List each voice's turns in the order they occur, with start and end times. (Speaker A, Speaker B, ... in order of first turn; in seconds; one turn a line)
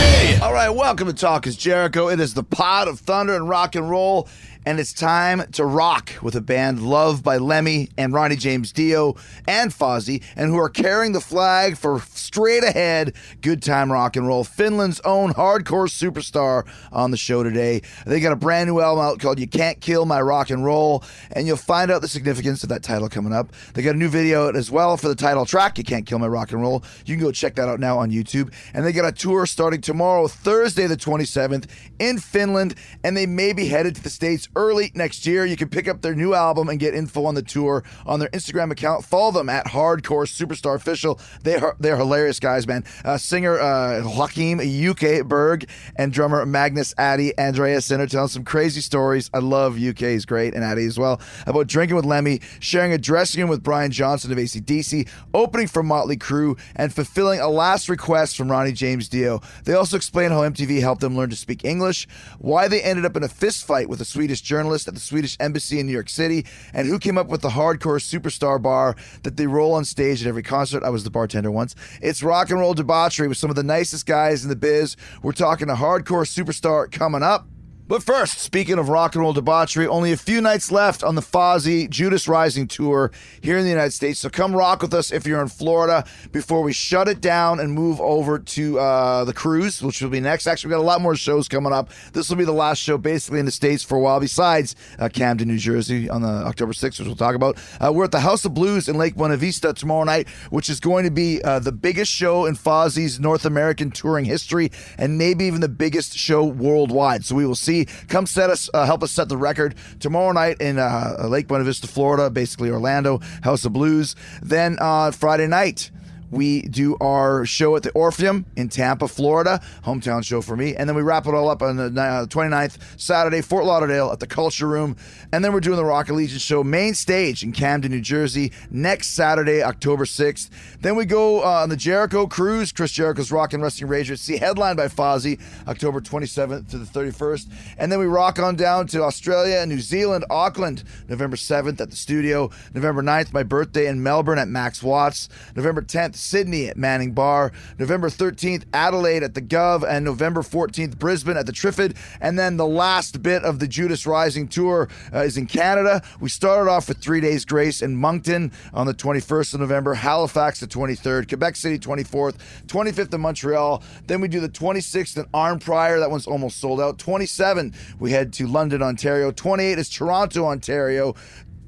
Speaker A: 0.3-171.2